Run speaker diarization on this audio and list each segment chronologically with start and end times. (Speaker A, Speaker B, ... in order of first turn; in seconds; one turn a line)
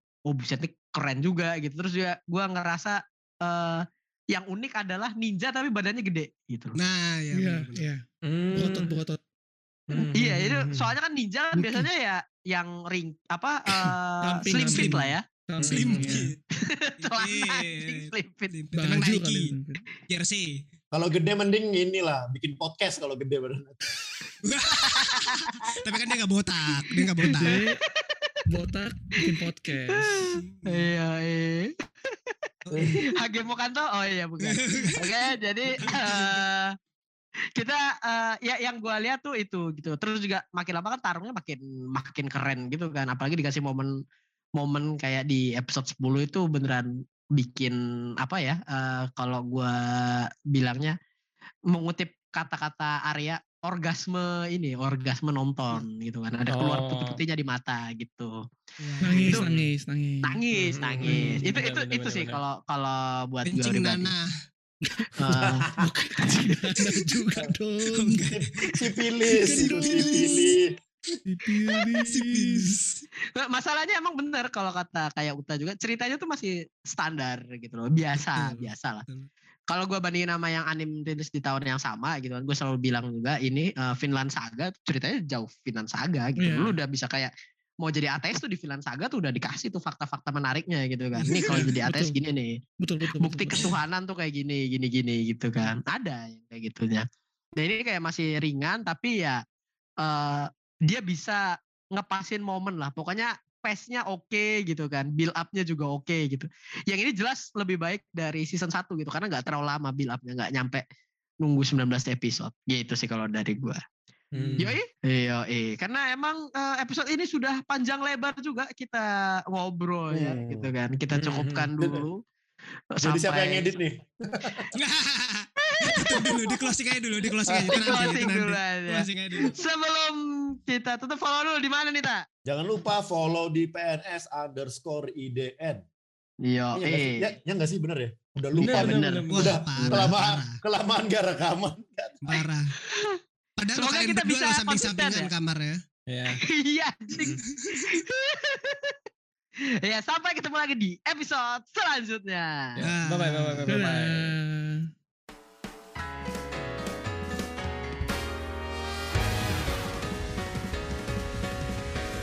Speaker A: 0.3-6.8
Speaker B: 6.8-7.8
Speaker C: 7.3-9.2
Speaker D: 8.2-8.9
Speaker D: 9.9-10.9
Speaker A: 10.1-15.2
Speaker C: 11.6-11.8
Speaker C: 14.2-16.3
Speaker D: 15.6-16.2
Speaker B: 15.7-16.4
Speaker A: 16.6-18.5
Speaker B: 17.0-19.5
Speaker C: 18.7-19.8
Speaker B: 20.1-20.6
Speaker E: 20.9-23.8
Speaker B: 24.4-27.6
Speaker A: 24.8-26.0
Speaker A: 26.7-28.4
Speaker C: 27.2-27.8
Speaker C: 28.5-30.1
Speaker A: 29.2-32.4
Speaker B: 30.2-30.7
Speaker B: 32.6-33.1
Speaker A: 33.0-36.7
Speaker B: 34.4-36.4
Speaker A: 37.5-43.9
Speaker A: 44.6-50.9
Speaker A: 51.7-58.3
Speaker D: 56.5-57.1
Speaker B: 58.8-59.4
Speaker C: 59.0-60.4
Speaker A: 59.1-59.5
Speaker D: 59.2-59.7
Speaker A: 60.2-64.1
Speaker D: 60.6-62.4
Speaker C: 61.0-61.5
Speaker B: 63.5-64.2
Speaker C: 65.0-68.3
Speaker A: 65.1-65.7
Speaker E: 65.4-65.9
Speaker A: 66.2-66.5
Speaker B: 67.8-68.9
Speaker E: 68.2-70.6
Speaker C: 69.4-70.6
Speaker B: 69.5-70.5
Speaker C: 71.2-72.8
Speaker B: 71.7-73.0
Speaker A: 73.3-79.0
Speaker B: 78.3-79.3
Speaker A: 79.7-87.3
Speaker C: 86.4-86.8
Speaker A: 87.8-97.0
Speaker B: 91.2-91.7
Speaker C: 91.4-92.2
Speaker C: 92.8-93.7
Speaker A: 97.6-99.4
Speaker A: 100.0-101.4
Speaker A: 101.9-110.8
Speaker A: 111.4-113.8
Speaker D: 114.3-114.8
Speaker A: 114.6-122.2
Speaker E: 120.1-120.7
Speaker D: 121.1-121.7
Speaker E: 121.8-122.0
Speaker A: 122.9-123.7
Speaker E: 123.0-124.7
Speaker B: 124.7-129.6
Speaker A: 125.6-126.7
Speaker E: 127.5-128.1
Speaker A: 127.7-132.2
Speaker E: 132.4-135.8
Speaker A: 136.4-137.3
Speaker E: 136.8-142.3
Speaker D: 138.6-139.5
Speaker A: 138.6-139.3
Speaker B: 139.3-140.6
Speaker B: 142.2-142.7
Speaker A: 142.8-143.2
Speaker B: 143.6-145.8
Speaker A: 143.7-145.3
Speaker D: 146.1-146.4
Speaker A: 146.4-148.9
Speaker B: 147.2-148.0
Speaker A: 149.8-152.8
Speaker D: 152.8-154.3
Speaker B: 152.8-153.7
Speaker C: 153.7-154.9